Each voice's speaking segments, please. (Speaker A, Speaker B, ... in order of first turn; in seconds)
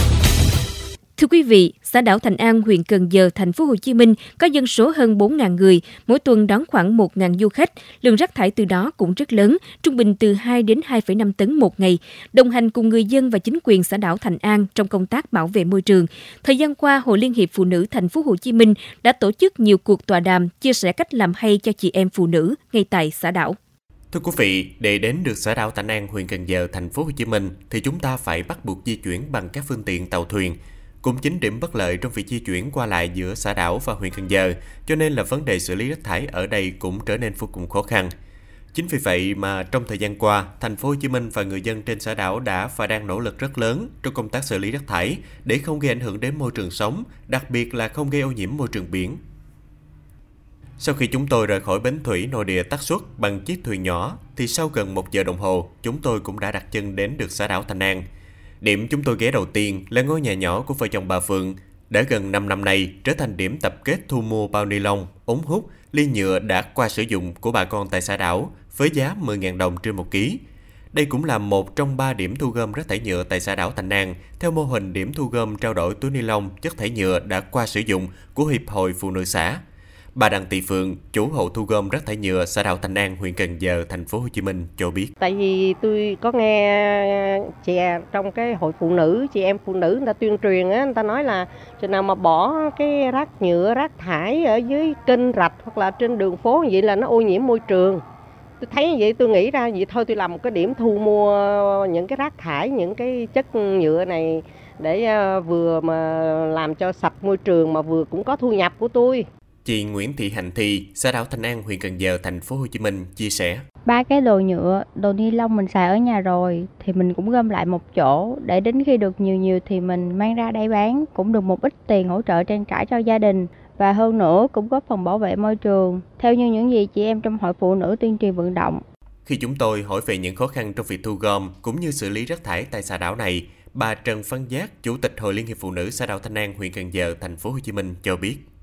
Speaker A: 1.2-23.6
Speaker B: 24.1-38.1, 38.7-49.2, 50.8-58.0, 58.6-70.4, 70.9-79.6, 80.1-85.1, 109.6-113.6, 129.2-138.4
Speaker C: 85.2-98.0, 98.6-109.3
Speaker D: 113.8-128.8